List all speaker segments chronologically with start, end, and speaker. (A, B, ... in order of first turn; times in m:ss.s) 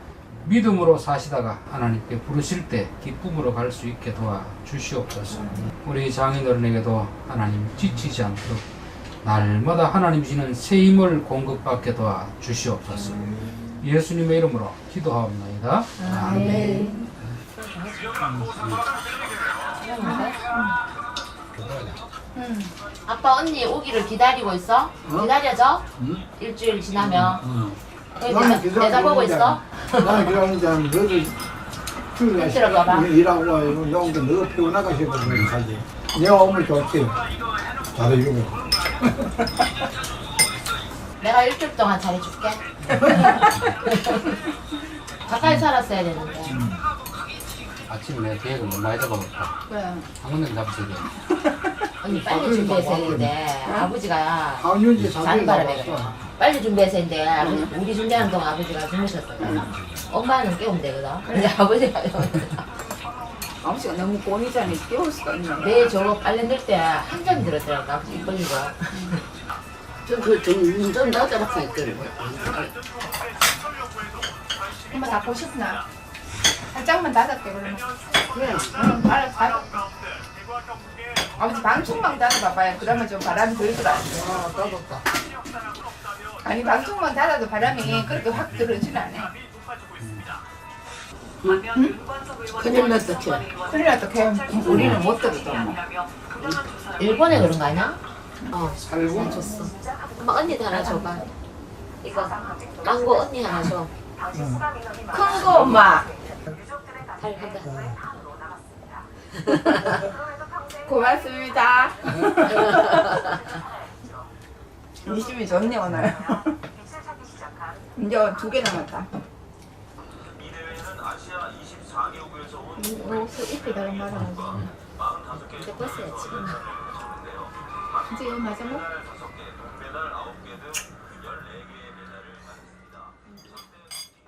0:00.4-0:08.6 A
0:05.3-0:05.6 B
0:09.2-0:16.6 A
0:12.9-0:13.4 B
0:16.0-0:16.9 C
0:16.1-0:17.0 B
0:16.2-0:17.0 D
0:17.6-0:18.1 C
0:18.2-0:18.6 E
0:18.6-0:18.8 A
0:19.8-0:20.4 C
0:20.0-0:20.8 B
0:21.6-0:21.9 E
0:22.3-0:22.7 B
0:23.0-0:25.8 C
0:25.0-0:25.3 E
0:26.0-0:26.2 E
0:26.4-0:27.4 C
0:27.0-0:31.4 E
0:28.2-0:30.3 C
0:32.1-0:37.3 E
0:32.3-0:33.1 C
0:37.8-0:39.5 E
0:41.2-0:44.3 C
0:45.2-0:46.6 C
0:46.5-0:46.8 E
0:47.9-0:49.5 A
0:49.7-0:50.1 B
0:50.2-0:51.1 A
0:51.4-0:51.7 B
0:52.0-1:02.7 C
0:52.1-0:53.4 E
0:53.6-0:53.9 B
0:54.6-0:56.2 E
0:57.4-0:57.7 B
0:59.4-0:59.7 B
1:01.2-1:01.5 B
1:03.6-1:05.9 B
1:05.6-1:09.2 C
1:10.0-1:12.8 D
1:14.9-1:15.8 B
1:16.7-1:17.9 B
1:18.3-1:18.8 D
1:18.7-1:19.8 B
1:21.4-1:24.3 B
1:24.1-1:25.0 E
1:26.4-1:29.3 B
1:31.4-1:31.7 D
1:31.7-1:32.0 B
1:32.4-1:33.6 D
1:33.5-1:35.8 B
1:34.7-1:35.0 A
1:37.0-1:38.0 C
1:38.5-1:41.2 C
1:38.8-1:39.4 A
1:39.0-1:39.7 B
1:40.7-1:41.2 B
1:42.0-1:43.9 C
1:44.3-1:44.6 E
1:45.1-1:46.1 B
1:47.2-1:48.0 C
1:47.6-1:48.0 E
1:49.4-1:50.0 C
1:50.8-1:53.3 B
1:55.0-1:56.6 B
1:58.0-1:59.1 B
2:02.8-2:04.7 B
2:05.5-2:06.6 B
2:08.0-2:08.9 B